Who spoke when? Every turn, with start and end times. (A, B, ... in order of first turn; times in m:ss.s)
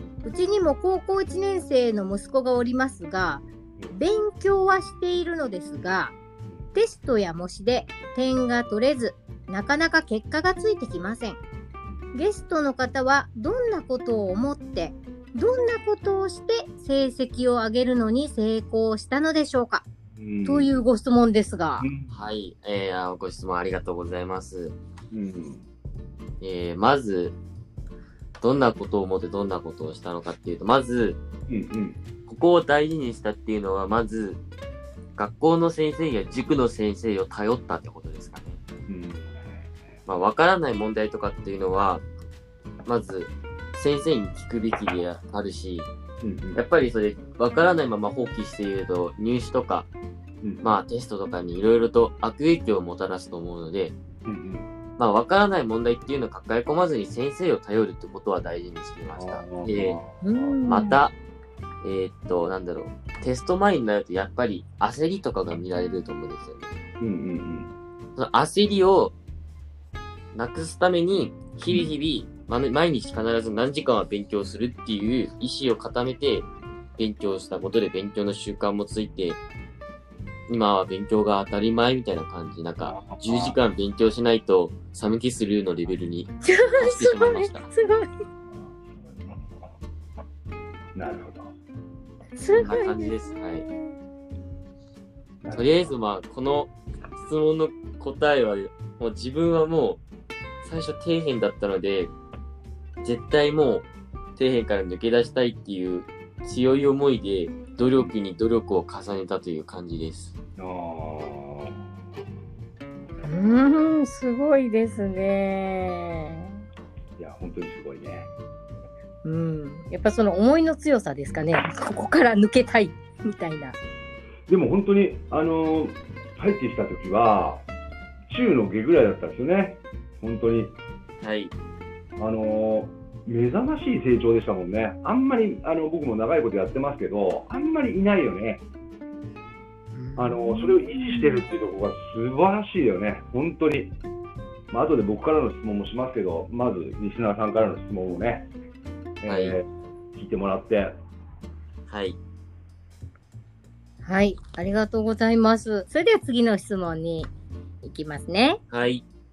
0:00.2-0:06.2 A
0:06.7-0:11.4 A
0:12.1-0:19.8 A
0:20.1-0:20.8 B
0:20.4-0:21.9 A
0:21.8-0:22.1 B
0:22.1-0:24.8 C
0:25.1-0:25.6 B
0:26.4-0:27.4 C
0:28.4-0:31.2 C
0:31.5-0:32.0 B
0:32.3-0:34.4 C
0:35.2-0:38.6 C
0:38.9-0:39.4 B
0:40.0-0:42.0 C
0:42.8-0:45.9 C
0:46.2-0:46.6 B
0:46.5-0:49.9 C
0:50.6-0:53.9 C
0:54.2-0:54.7 B
0:55.0-1:00.0 C
0:59.1-1:01.0 B
1:00.2-1:01.0 A
1:00.7-1:01.1 C
1:01.8-1:06.7 C
1:07.0-1:07.7 B
1:08.2-1:09.1 C
1:10.3-1:19.4 C
1:11.7-1:11.9 B
1:20.5-1:27.7 C
1:22.8-1:23.6 B
1:26.4-1:28.1 A
1:28.5-1:29.4 B
1:30.9-1:31.5 B
1:32.4-1:33.9 A
1:32.5-1:33.6 C
1:35.4-1:35.9 B
1:35.5-1:40.0 C
1:40.6-1:42.1 C
1:43.0-1:50.3 C
1:50.6-1:51.8 B
1:53.2-1:56.6 A
1:57.2-1:58.3 B
1:59.2-2:03.8 A
2:04.5-2:07.6 B
2:08.3-2:10.8 B
2:11.2-2:11.5 C
2:12.2-2:18.6 B
2:19.9-2:20.5 C
2:20.2-2:24.0 B
2:24.7-2:28.5 B
2:29.2-2:31.0 B
2:29.2-2:29.6 C
2:31.9-2:32.2 C
2:34.0-2:37.3 A
2:37.8-2:38.6 A
2:38.7-2:39.0 C